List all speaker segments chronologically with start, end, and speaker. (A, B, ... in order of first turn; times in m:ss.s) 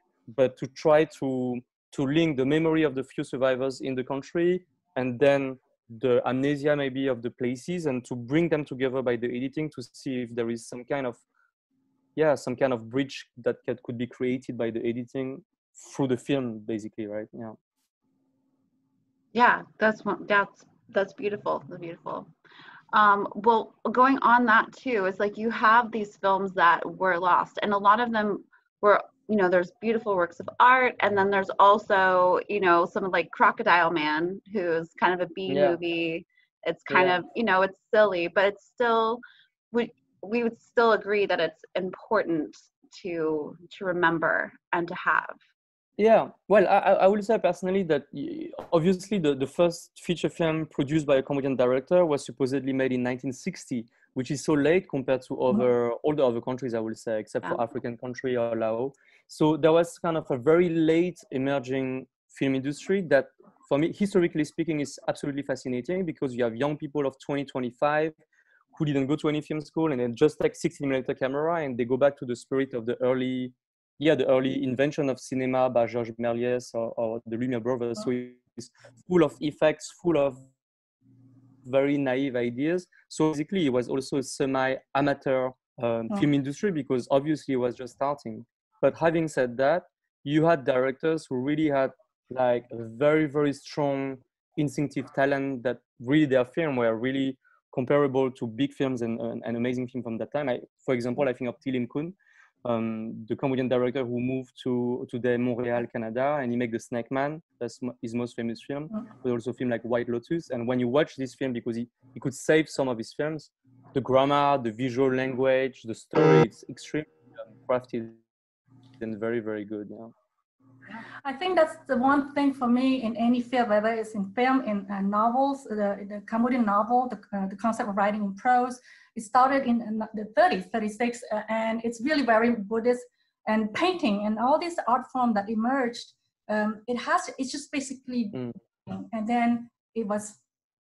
0:00.3-0:11.2 A
0:12.2-0:17.6 A
0:19.3-0:22.3 B
0:22.9-0:39.2 B
0:35.5-0:35.8 A
0:36.9-0:37.2 A
0:39.7-0:45.4 B
0:46.0-1:08.2 A
1:08.8-1:20.4 A
1:21.6-1:58.2 A
1:59.0-2:00.1 A
2:01.2-2:20.4 C